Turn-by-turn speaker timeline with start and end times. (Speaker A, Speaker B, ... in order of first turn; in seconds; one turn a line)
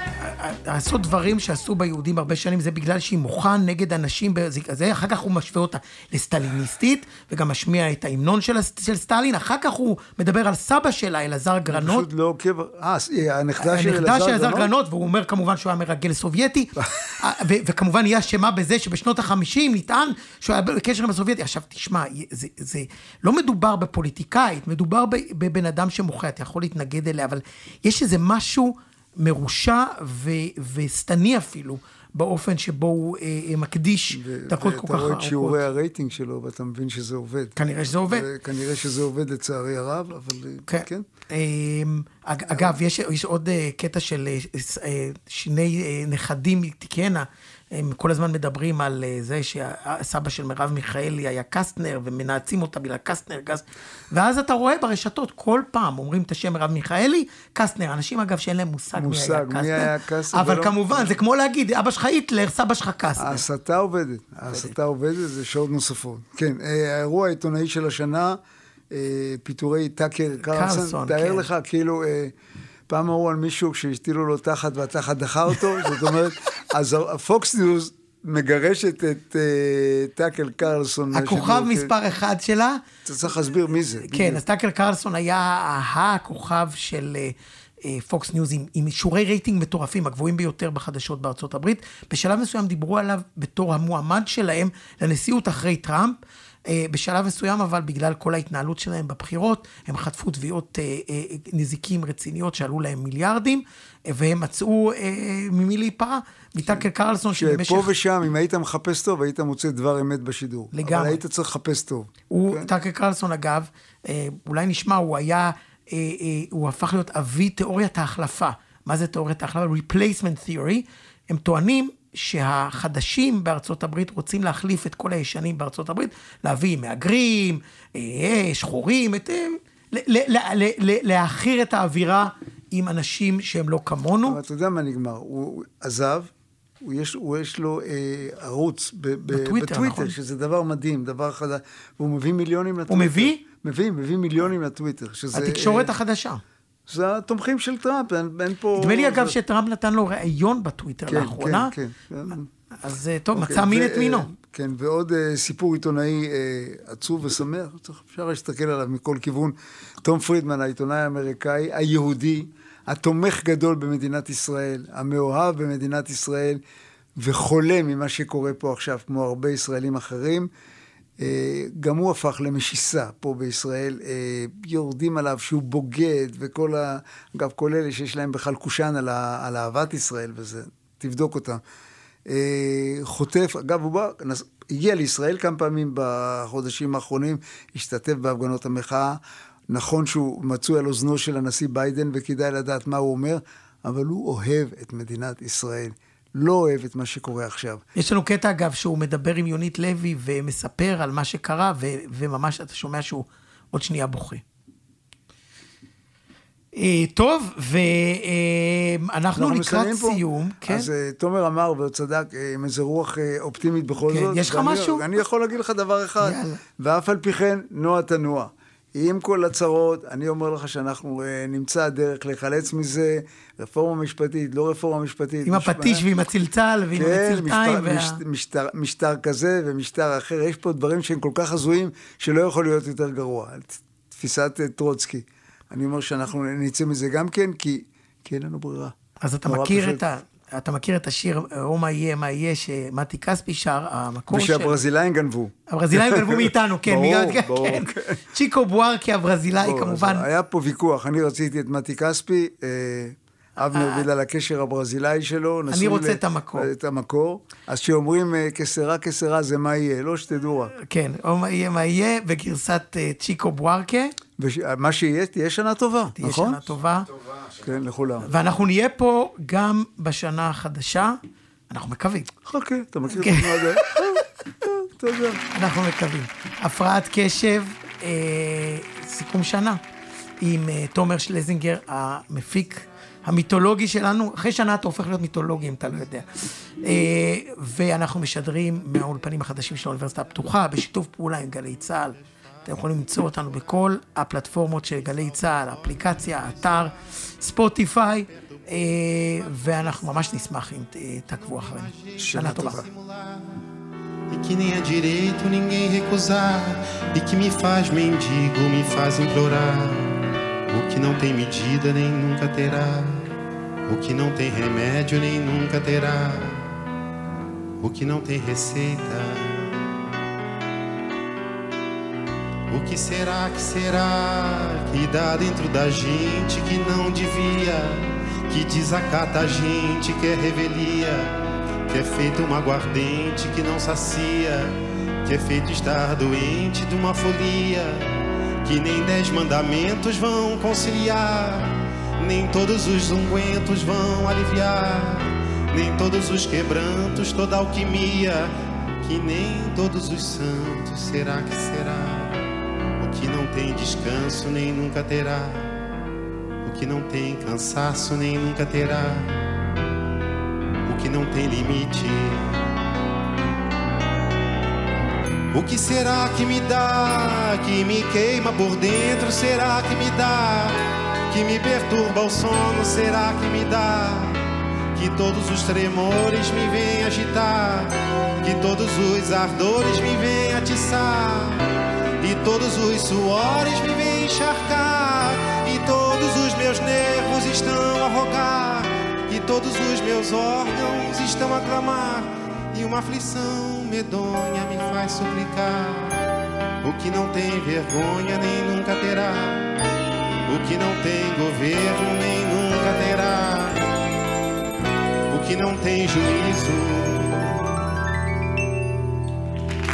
Speaker A: 0.2-12.1
Speaker B: 11.7-14.7
Speaker A: 13.6-35.6
Speaker B: 34.1-37.5
Speaker A: 37.6-38.3
Speaker B: 38.1-41.1
Speaker A: 40.7-63.4
Speaker B: 42.5-42.8
Speaker B: 59.0-61.2
Speaker B: 63.2-68.4
Speaker B: 68.9-72.3
Speaker A: 70.5-71.5
Speaker B: 72.9-81.9
Speaker A: 81.1-82.8
Speaker B: 83.0-84.4
Speaker A: 84.1-107.9
Speaker B: 107.3-112.7
Speaker A: 110.7-111.2
Speaker A: 112.3-134.4
Speaker B: 134.2-136.3
Speaker B: 136.8-145.9
Speaker A: 139.3-140.1
Speaker A: 142.9-143.4
Speaker A: 145.3-146.4
Speaker B: 146.9-149.4
Speaker A: 148.8-151.7
Speaker B: 151.1-152.5
Speaker A: 152.8-154.3
Speaker B: 153.3-166.6
Speaker B: 167.2-170.5
Speaker B: 171.2-181.6
Speaker B: 182.3-197.8
Speaker A: 198.0-204.4
Speaker A: 206.7-210.9
Speaker B: 209.3-226.1
Speaker A: 214.1-215.1
Speaker A: 216.2-216.6
Speaker A: 225.5-228.2
Speaker B: 226.9-240.0
Speaker A: 239.2-244.8
Speaker B: 244.3-248.2
Speaker A: 245.7-250.2
Speaker B: 249.6-260.7
Speaker A: 253.6-254.1
Speaker A: 255.7-256.7
Speaker A: 260.8-264.1
Speaker B: 264.4-266.6
Speaker A: 266.2-267.1
Speaker B: 267.6-268.3
Speaker A: 268.2-271.2
Speaker A: 271.7-272.3
Speaker B: 272.4-275.4
Speaker A: 273.1-274.0
Speaker A: 275.5-279.8
Speaker A: 280.4-286.3
Speaker A: 286.8-302.8
Speaker C: 290.0-290.2
Speaker C: 291.8-294.0
Speaker C: 294.7-297.1
Speaker C: 297.7-303.5
Speaker B: 302.2-302.9
Speaker C: 304.3-313.2
Speaker C: 313.9-316.7
Speaker C: 317.8-319.7
Speaker C: 322.7-331.3
Speaker C: 331.9-334.7
Speaker C: 335.2-338.1
Speaker C: 338.6-348.5
Speaker C: 349.0-352.4
Speaker C: 353.0-355.7
Speaker C: 356.6-359.4
Speaker C: 360.9-362.6
Speaker C: 365.5-370.8
Speaker C: 371.3-374.4
Speaker C: 374.9-381.6
Speaker C: 382.2-396.2
Speaker C: 396.8-399.6
Speaker C: 400.5-403.9
Speaker C: 405.3-407.6